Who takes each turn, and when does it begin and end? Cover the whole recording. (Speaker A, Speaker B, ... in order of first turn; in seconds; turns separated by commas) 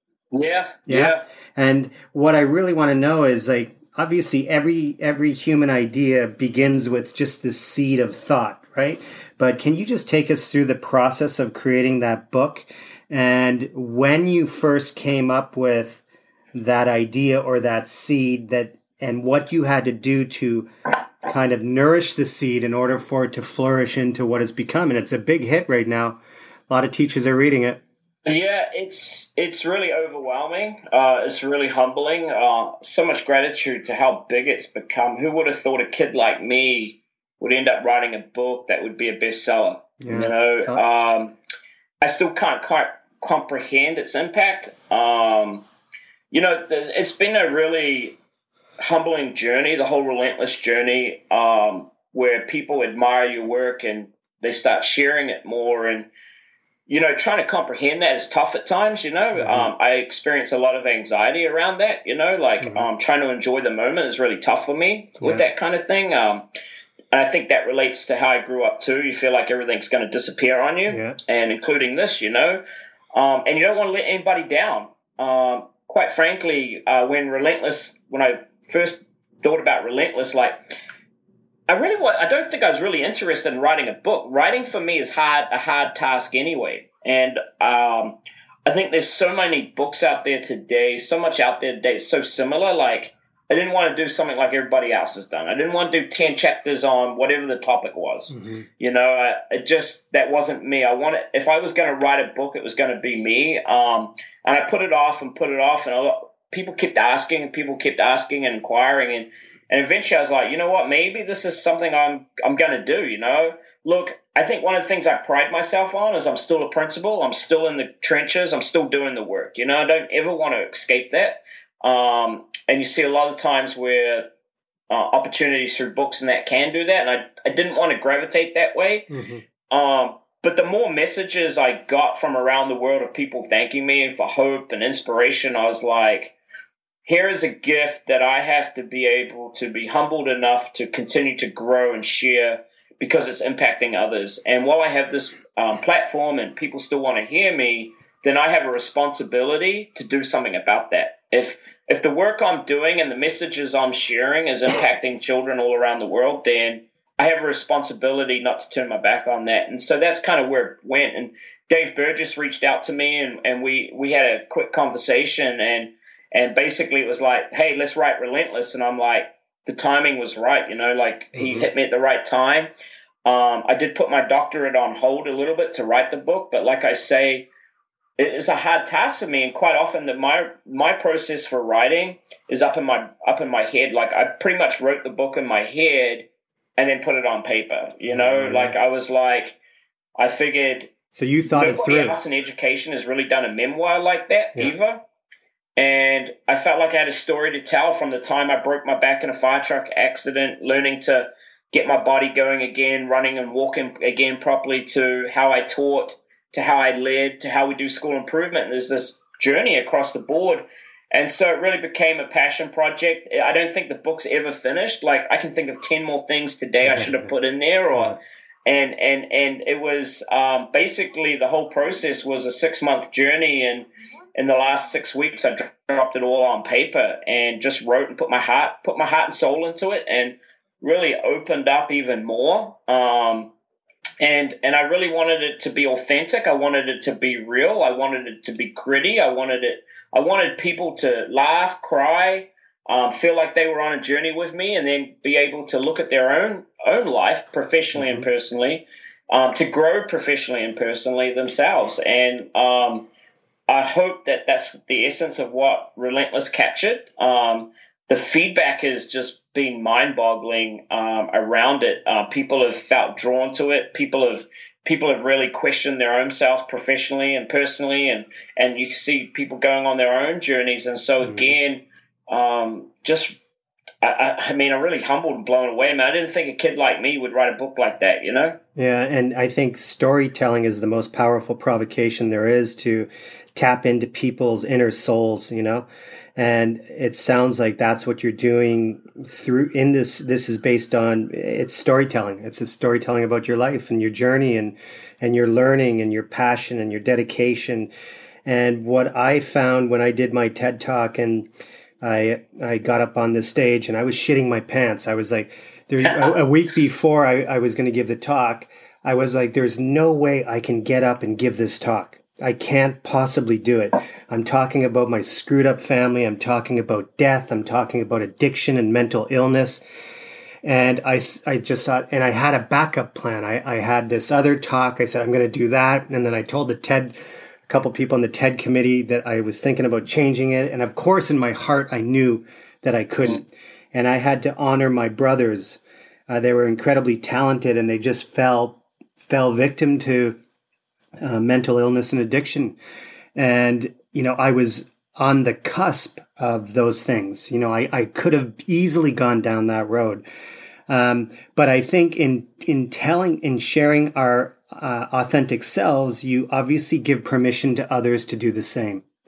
Speaker A: 0.3-1.2, Speaker B: 0.9-20.7, Speaker B: 21.2-26.2, Speaker B: 26.7-27.8, Speaker A: 28.2-41.4, Speaker B: 40.0-40.8, Speaker A: 42.0-45.6, Speaker A: 46.3-48.2, Speaker A: 48.8-56.1, Speaker A: 56.9-66.5, Speaker B: 59.4-59.7, Speaker B: 62.6-62.9, Speaker A: 67.1-72.6, Speaker B: 70.9-71.2, Speaker A: 73.1-80.5, Speaker A: 81.7-124.3, Speaker B: 98.3-98.7, Speaker A: 124.9-129.1, Speaker B: 129.1-129.4, Speaker A: 129.7-136.3, Speaker A: 137.0-172.7, Speaker B: 171.3-171.7, Speaker A: 173.2-177.5, Speaker A: 178.2-189.6, Speaker B: 188.1-188.7, Speaker A: 190.2-190.9, Speaker B: 191.1-192.2, Speaker A: 191.5-195.0, Speaker A: 195.8-233.5, Speaker B: 216.8-217.3, Speaker A: 234.2-253.1, Speaker B: 247.9-248.2, Speaker A: 253.7-273.4, Speaker B: 271.2-271.5, Speaker A: 274.0-278.6, Speaker B: 278.8-297.9, Speaker B: 298.4-301.5, Speaker B: 302.0-319.8, Speaker A: 306.0-306.3, Speaker B: 320.6-340.4, Speaker B: 341.2-342.8, Speaker B: 343.4-350.2, Speaker B: 350.9-359.0